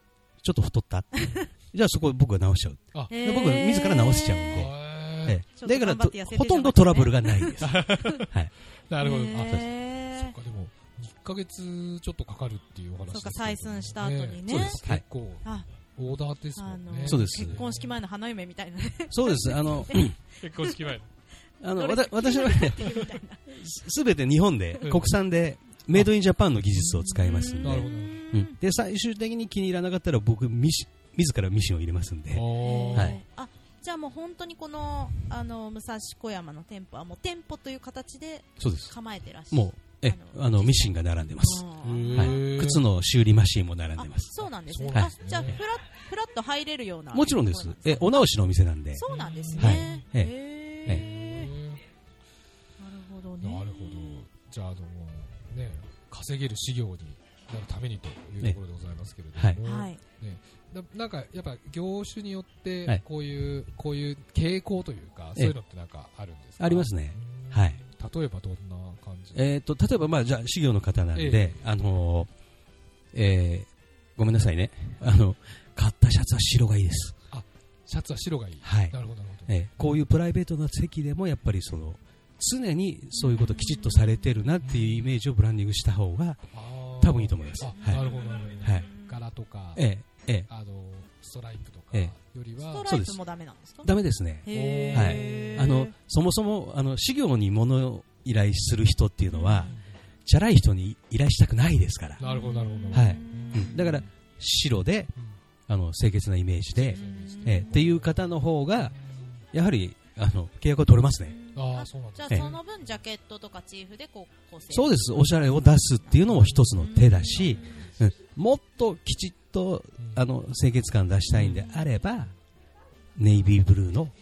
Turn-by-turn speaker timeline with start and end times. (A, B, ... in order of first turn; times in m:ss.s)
0:00.4-0:08.5 A
0:03.1-0:04.6 B
0:04.5-0:05.4 C
0:05.6-0:08.2 B
0:07.6-0:08.4 C
0:08.9-0:17.9 C
0:09.0-0:10.3 B
0:13.1-0:14.8 B
0:14.5-0:15.0 A
0:16.6-0:20.7 B
0:17.0-0:17.6 A
0:19.1-0:20.2 A
0:20.4-0:21.1 C
0:21.6-0:33.2 A
0:21.8-0:23.5 B
0:24.8-0:25.1 C
0:26.8-0:28.1 C
0:27.1-0:28.6 B
0:32.3-0:33.2 C
0:32.6-0:42.4 B
0:38.6-0:38.9 A
0:39.5-0:44.3 A
0:41.8-0:42.8 C
0:44.0-0:48.3 B
0:44.4-0:45.6 C
0:44.9-0:45.6 A
0:47.1-0:49.0 A
0:48.9-0:51.5 B
0:49.0-0:50.0 C
0:49.6-0:50.3 A
0:50.8-0:51.8 C
0:52.8-0:54.2 B
0:53.4-1:09.5 C
0:59.3-0:59.6 A
0:59.6-1:00.0 B
1:06.6-1:07.8 A
1:09.3-1:12.3 A
1:11.1-1:11.6 C
1:13.1-1:17.2 A
1:17.3-1:20.0 C
1:18.6-1:18.9 A
1:19.5-1:26.4 A
1:23.2-1:24.3 B
1:24.6-1:25.2 C
1:26.5-1:29.9 C
1:27.0-1:28.0 A
1:27.7-1:29.2 B
1:28.6-1:28.9 A
1:29.7-1:30.5 A
1:30.5-1:32.9 C
1:32.7-1:33.9 B
1:32.8-1:33.2 A
1:33.8-1:42.2 A
1:34.4-1:35.9 B
1:34.5-1:35.8 C
1:39.3-1:39.8 B
1:42.2-1:44.1 C
1:42.2-1:44.0 B
1:42.9-1:45.1 A
1:45.7-1:48.9 A
1:46.7-1:49.4 C
1:46.9-1:47.8 B
1:49.5-1:51.4 A
1:51.3-1:56.2 B
1:51.5-1:52.6 C
1:54.7-2:02.3 A
1:56.3-1:56.7 C
1:56.8-1:57.9 B
1:57.3-1:57.6 C
2:00.0-2:00.3 C
2:01.3-2:01.7 C
2:03.2-2:04.1 A